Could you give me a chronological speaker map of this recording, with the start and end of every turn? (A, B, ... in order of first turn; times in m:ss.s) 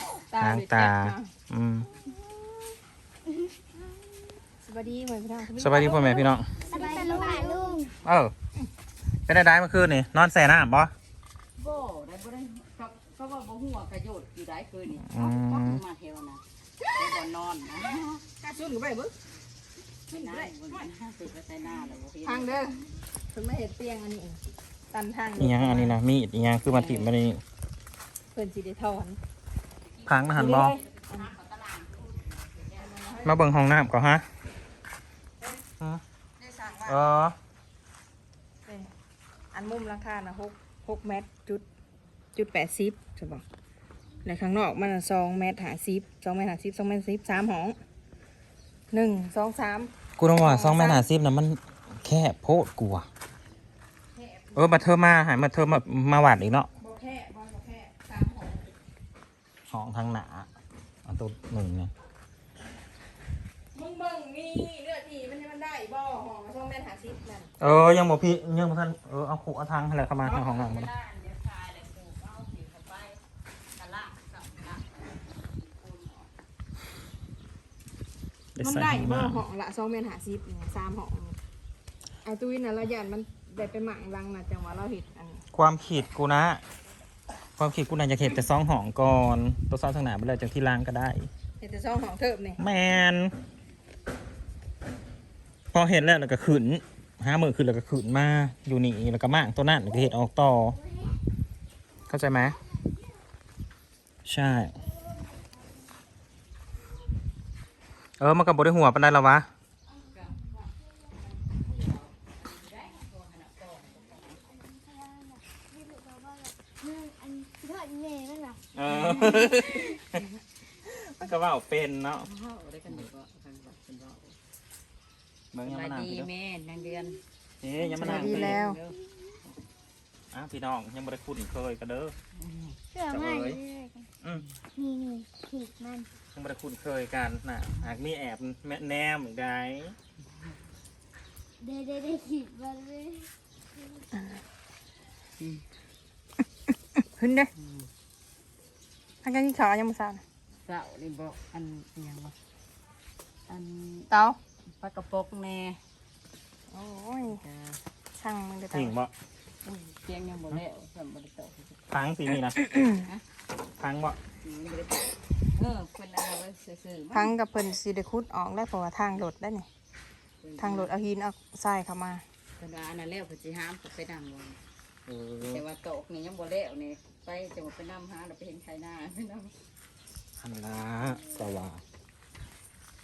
0:00.3-0:01.3 A
0:00.4-0:01.9 B
0:04.6-0:07.4 A
0:05.6-0:06.5 B
0:06.7-0:07.2 C
0:06.7-0:07.9 D
0:08.0-0:08.3 B
0:09.3-0:10.9 B
0:11.6-0:16.4 C
0:15.0-0:15.8 B
0:17.0-0:18.2 C
0:18.4-0:19.1 A
0:20.1-0:22.6 C
0:20.1-0:20.5 A
0:22.2-0:24.4 A
0:24.9-0:26.0 A
0:25.4-0:27.4 B
0:26.7-0:27.1 C
0:28.3-0:29.2 A
0:30.0-0:33.3 C
0:30.1-0:30.8 B
0:30.3-0:31.3 A
0:32.9-0:33.4 A
0:33.2-0:34.3 B
0:36.4-0:37.0 A
0:36.8-0:37.4 B
0:39.5-0:41.6 A
0:42.4-0:43.4 A
0:44.2-0:47.8 A
0:48.9-0:51.0 A
0:50.2-0:53.1 B
0:54.2-0:54.8 A
0:54.6-0:56.7 B
0:56.8-0:58.7 A
0:59.7-1:00.5 B
1:01.0-1:01.9 B
1:03.7-1:07.5 A
1:07.6-1:10.9 B
1:10.2-1:13.2 C
1:13.8-1:14.9 C
1:15.5-1:16.3 C
1:18.6-1:19.4 B
1:18.6-1:21.4 A
1:22.2-1:25.4 A
1:25.5-1:26.6 B
1:27.6-1:31.3 B
1:31.6-1:32.6 A
1:32.6-1:33.3 B
1:35.7-1:40.8 B
1:42.1-1:42.6 B
1:44.3-1:44.8 B
1:48.2-1:49.5 B
1:50.2-1:50.6 C
1:51.4-1:54.4 C
1:54.9-1:58.6 D
1:58.8-2:00.2 B
2:00.8-2:02.3 B
2:02.2-2:04.4 C
2:05.5-2:06.3 B
2:05.6-2:07.2 C
2:07.6-2:08.6 B
2:08.0-2:08.8 A
2:08.0-2:09.0 C
2:10.3-2:12.1 B
2:12.4-2:12.8 C
2:12.9-2:14.1 D
2:13.1-2:13.6 B
2:14.8-2:16.1 D
2:16.4-2:20.0 B
2:21.6-2:23.3 D
2:27.2-2:27.5 A
2:27.6-2:27.9 C
2:29.2-2:30.2 A
2:30.6-2:32.3 C
2:33.5-2:34.1 C
2:34.1-2:34.4 A
2:34.8-2:35.8 C
2:36.7-2:37.4 A
2:37.3-2:37.8 C
2:38.2-2:38.9 A
2:38.7-2:39.1 B
2:39.6-2:41.8 C
2:41.9-2:42.6 B
2:42.6-2:43.1 A
2:43.8-2:44.2 B
2:44.4-2:47.3 C
2:47.1-2:49.7 A
2:50.4-2:50.9 C
2:50.6-2:52.2 A
2:52.6-2:54.6 C
2:55.1-2:55.6 B
2:55.5-2:59.5 C
3:00.4-3:01.8 B